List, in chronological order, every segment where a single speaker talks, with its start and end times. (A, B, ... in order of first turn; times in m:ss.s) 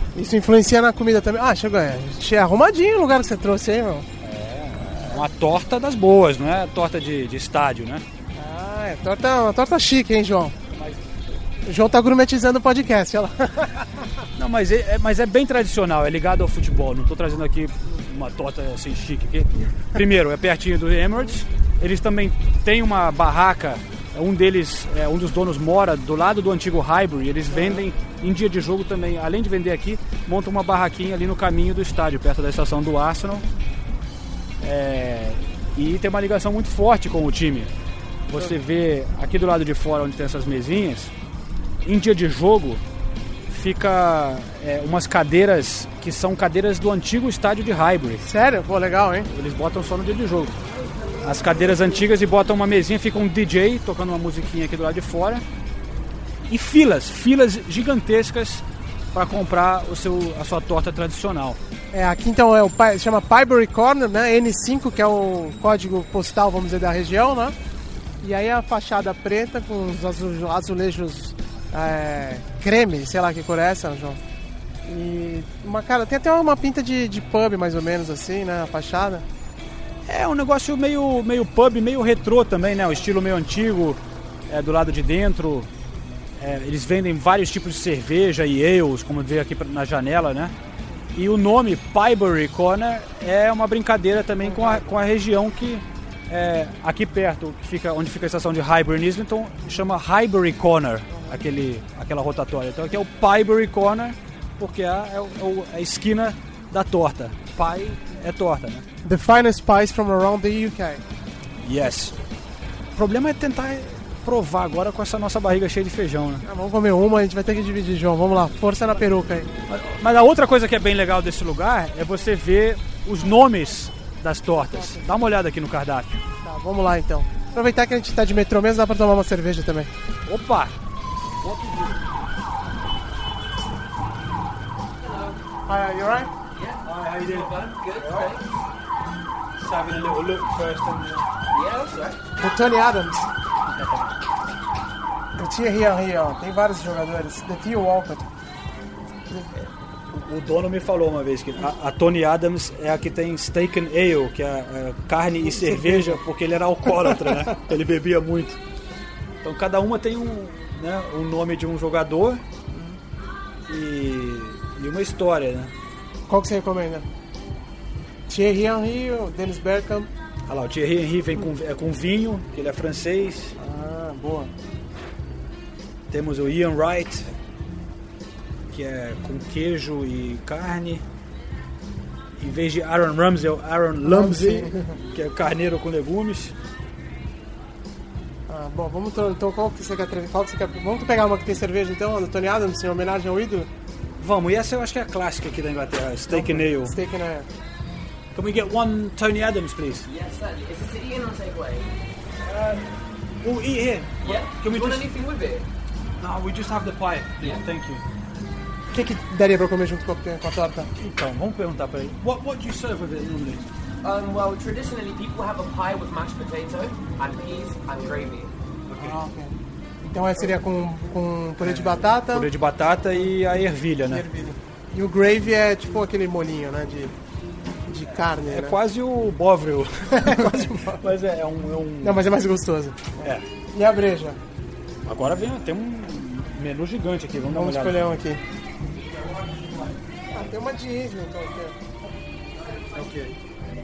0:00.1-0:04.1 A
0:04.2-0:08.0 B
0:08.4-0:10.6 A
0:10.7-0:11.4 B
0:11.6-0:14.1 A
0:14.4-0:33.5 B
0:27.5-0:27.8 A
0:34.6-0:37.7 B
0:38.3-0:41.1 B
0:41.8-0:42.8 B
0:43.5-0:48.2 B
0:48.2-0:49.3 A
0:49.3-0:50.6 B
0:51.2-0:55.4 B
0:56.5-1:01.6 B
1:01.9-1:07.6 A
1:08.2-1:14.2 A
1:14.8-1:19.2 A
1:20.1-1:25.7 B
1:26.4-1:30.5 B
1:31.1-1:48.9 B
1:34.4-1:34.8 A
1:41.1-1:41.4 A
1:49.0-1:51.0 A
1:51.6-1:52.2 B
1:53.0-1:56.4 B
1:56.4-1:59.5 A
1:59.7-2:06.2 B
2:04.6-2:05.1 A
2:06.4-2:09.9 A
2:10.3-2:10.8 B
2:11.4-2:12.0 B
2:15.7-2:16.3 A
2:16.6-2:18.5 C
2:16.8-2:18.3 B
2:19.6-2:21.2 B
2:21.5-2:22.2 C
2:22.4-2:23.3 A
2:25.4-2:28.3 A
2:29.6-2:38.6 B
2:35.4-2:36.2 A
2:39.4-2:42.4 B
2:42.7-2:43.0 A
2:43.7-2:45.7 B
2:46.3-2:47.1 A
2:48.3-2:50.1 A
2:50.5-2:53.6 B
2:53.6-2:54.5 A
2:56.1-2:57.3 B
2:58.7-3:01.0 B
3:02.4-3:06.6 B
3:04.0-3:04.9 A
3:08.5-3:13.7 A
3:14.2-3:17.0 B
3:16.3-3:17.5 A
3:18.3-3:20.1 B
3:20.0-3:21.9 C
3:22.5-3:22.8 B
3:23.4-3:25.1 B
3:24.2-3:25.6 C
3:26.2-3:28.0 B
3:27.4-3:27.6 C
3:28.9-3:30.9 A
3:31.0-3:33.6 B
3:34.0-3:38.5 C
3:38.9-3:39.2 B
3:39.0-3:42.5 A
3:41.6-3:44.2 B
3:44.0-3:47.2 A
3:47.9-3:48.8 A
3:48.1-3:52.2 B
3:50.1-3:51.1 A
3:52.0-3:53.2 A
3:53.2-3:53.4 B
3:53.7-3:54.4 A
3:55.1-3:58.0 B
3:57.5-3:58.4 A
4:00.3-4:01.8 A
4:02.8-4:03.4 B